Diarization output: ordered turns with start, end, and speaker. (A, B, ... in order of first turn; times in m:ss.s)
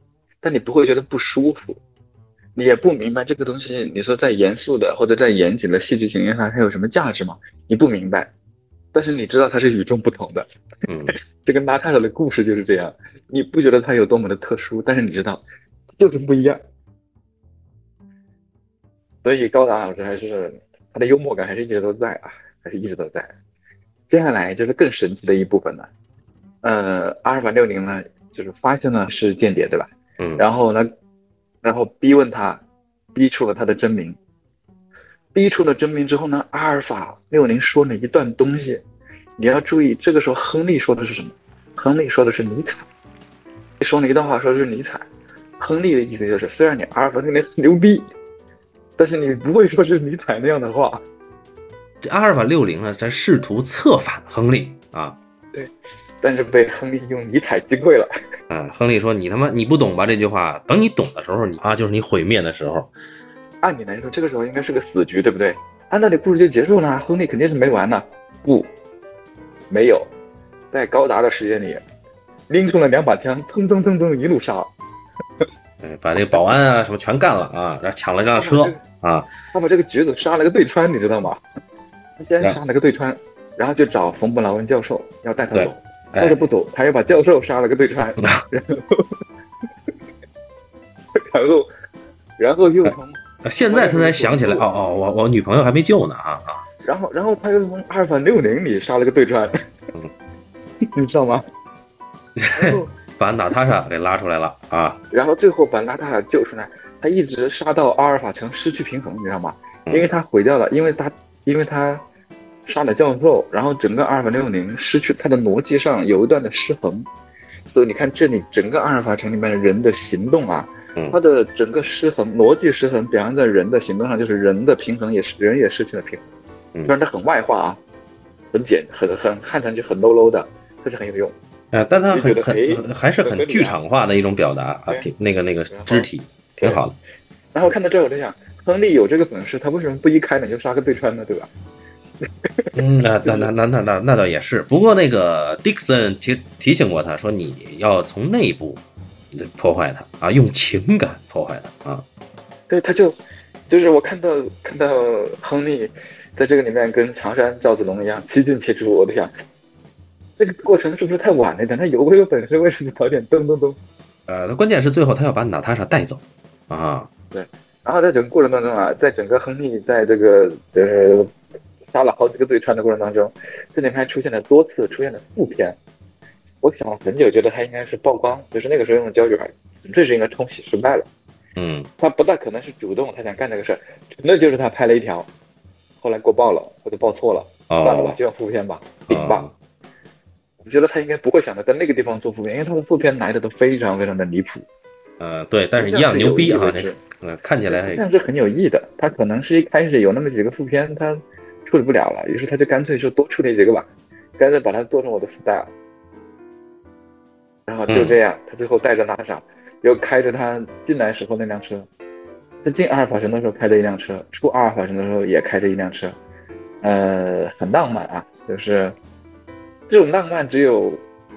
0:00.4-0:01.8 A
0:02.6-0:08.3 A
0:08.9-0:10.5 A
0:10.9-0:11.2 B
0:11.4-0:16.6 A
0:19.2-0:23.3 A
0:24.1-0:25.9 A
0:26.6-0:30.9 A
0:30.2-0:30.4 B
0:31.6-0:32.6 A
0:33.2-0:34.2 A
0:35.3-0:38.8 A
0:39.4-0:42.9 A
0:43.8-0:45.0 A
0:45.6-0:48.1 A
0:49.0-0:51.0 A
0:52.0-0:55.2 B
0:55.5-0:58.1 A
0:58.5-1:02.9 B
1:03.6-1:08.7 A
1:09.7-1:10.1 A
1:10.7-1:11.8 A
1:12.5-1:14.7 A
1:15.8-1:19.3 B
1:18.4-1:18.8 A
1:19.5-1:21.4 A
1:22.2-1:29.2 A
1:25.5-1:26.4 B
1:31.2-1:31.7 A
1:32.4-1:34.7 A
1:32.8-1:36.6 B
1:36.8-1:39.5 A
1:40.9-1:41.4 A
1:42.4-1:45.0 B
1:42.5-1:42.9 A
1:45.1-1:52.0 A
1:52.7-1:57.1 A
1:57.7-2:06.2 A
2:06.9-2:07.8 A
2:08.5-2:11.4 A
2:11.7-2:17.0 B
2:12.1-2:13.8 A
2:15.7-2:16.1 A
2:17.5-2:21.5 A
2:22.2-2:23.5 A
2:22.8-2:32.0 B
2:32.7-2:39.3 A
2:40.4-2:43.8 A
2:44.3-2:47.1 B
2:47.3-2:51.3 A
2:51.9-2:55.8 A
2:56.6-3:01.1 A
3:01.6-3:01.9 B
3:02.0-3:05.3 A
3:06.0-3:09.5 A
3:07.7-3:08.2 B
3:09.1-3:09.5 B
3:10.6-3:14.7 A
3:15.2-3:18.0 B
3:15.8-3:17.0 A
3:17.7-3:25.7 A
3:27.7-3:31.9 A
3:27.9-3:28.2 B
3:32.6-3:36.2 A
3:36.8-3:39.0 A
3:39.9-3:41.0 A